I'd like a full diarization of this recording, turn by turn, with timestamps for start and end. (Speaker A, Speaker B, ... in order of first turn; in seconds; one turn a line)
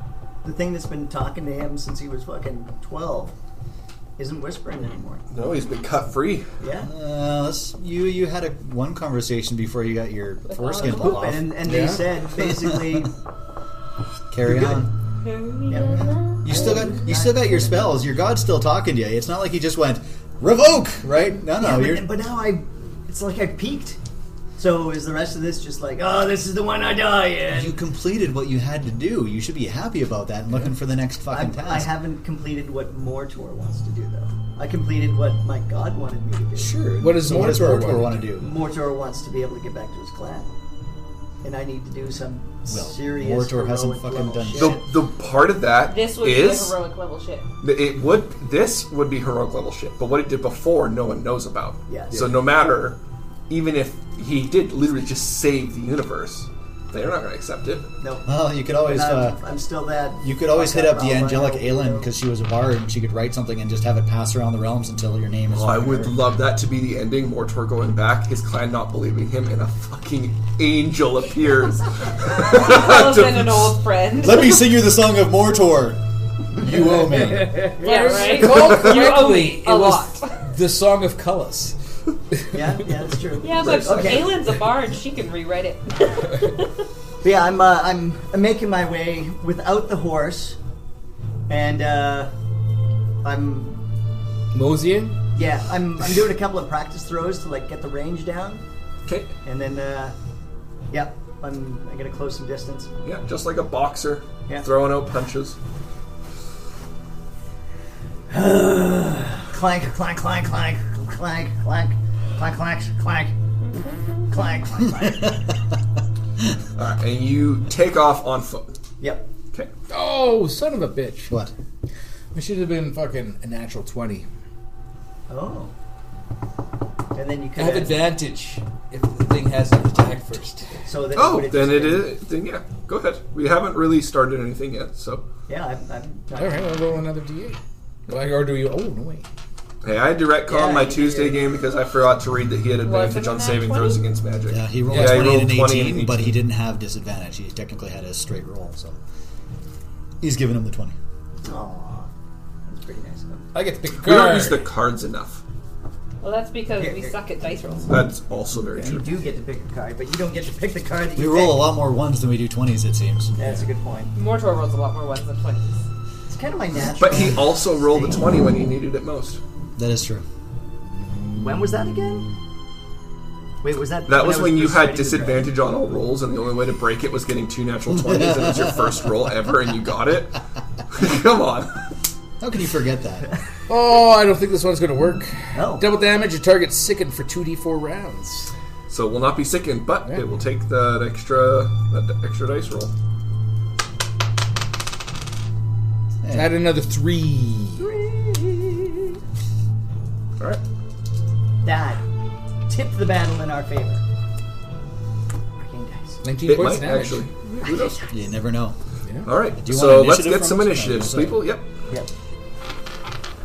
Speaker A: 0.4-3.3
Speaker A: 4.2-5.2
Speaker B: 5.3-6.5
Speaker A: 6.6-6.9
Speaker C: 6.8-11.8
Speaker D: 10.5-11.2
Speaker A: 10.7-13.1
Speaker E: 11.6-12.1
Speaker C: 12.4-13.1
Speaker C: 14.3-14.9
Speaker A: 14.4-14.9
Speaker D: 15.2-16.8
Speaker A: 15.7-18.3
Speaker C: 16.4-22.1
Speaker A: 21.6-24.0
Speaker A: 24.6-27.7
Speaker C: 27.5-31.9
Speaker A: 31.3-37.7
Speaker C: 36.5-38.5
Speaker E: 36.9-38.2
Speaker A: 38.3-40.5
Speaker A: 41.4-44.8
Speaker C: 42.7-44.8
Speaker B: 44.6-46.8
Speaker D: 45.9-47.5
Speaker B: 47.6-53.0
Speaker A: 51.9-52.4
Speaker B: 53.5-57.9
Speaker A: 58.0-62.1
Speaker C: 58.2-59.4
Speaker C: 60.2-66.2
Speaker B: 65.5-73.7
Speaker D: 72.5-74.6
Speaker C: 74.2-76.0
Speaker C: 76.6-77.6
Speaker E: 76.6-81.8
Speaker A: 77.8-78.5
Speaker D: 77.8-80.4
Speaker E: 82.3-82.6
Speaker A: 82.5-84.4
Speaker D: 83.4-86.8
Speaker B: 83.5-84.2
Speaker A: 87.2-90.6
Speaker A: 91.5-92.3
Speaker A: 93.2-93.8
Speaker E: 94.5-95.1
Speaker A: 95.3-98.6
Speaker B: 99.0-99.3
Speaker A: 99.4-100.2
Speaker A: 100.9-102.9
Speaker B: 103.0-105.6
Speaker A: 108.3-113.3
Speaker D: 113.6-114.3
Speaker A: 114.3-115.4
Speaker B: 116.8-118.7
Speaker A: 119.0-119.3
Speaker E: 119.9-121.3
Speaker C: 121.3-121.5
Speaker E: 122.3-124.2
Speaker A: 125.3-125.7
Speaker A: 127.1-128.1
Speaker E: 127.5-130.8
Speaker A: 130.8-132.1
Speaker B: 131.1-135.3
Speaker A: 135.5-137.1
Speaker E: 136.3-139.2
Speaker B: 139.8-146.4
Speaker A: 140.5-141.4
Speaker D: 142.8-144.0
Speaker C: 144.5-149.0
Speaker E: 144.9-145.3
Speaker C: 150.2-150.9
Speaker A: 151.4-152.1
Speaker A: 152.7-153.5
Speaker E: 153.5-154.7
Speaker B: 154.0-155.4
Speaker D: 156.2-158.0
Speaker A: 156.8-157.2
Speaker B: 157.9-159.2
Speaker A: 158.5-161.7
Speaker C: 161.1-163.3
Speaker A: 163.4-164.1
Speaker E: 163.4-163.7
Speaker D: 164.1-165.8
Speaker A: 166.3-168.3
Speaker B: 167.0-169.4
Speaker C: 169.8-170.2
Speaker E: 170.9-172.3
Speaker A: 171.4-172.2
Speaker A: 173.6-175.5
Speaker B: 174.1-181.8
Speaker C: 178.1-178.8
Speaker C: 182.4-183.3
Speaker E: 183.7-188.5
Speaker A: 185.5-185.9
Speaker B: 188.9-192.9
Speaker C: 196.2-196.6
Speaker E: 196.3-197.9
Speaker A: 197.8-199.2
Speaker A: 201.6-202.0
Speaker A: 202.7-204.0
Speaker A: 205.6-206.2
Speaker E: 206.2-207.3
Speaker B: 206.4-208.1
Speaker A: 207.6-208.0
Speaker C: 208.1-208.8
Speaker E: 209.0-209.3
Speaker B: 209.2-211.7
Speaker C: 209.6-211.5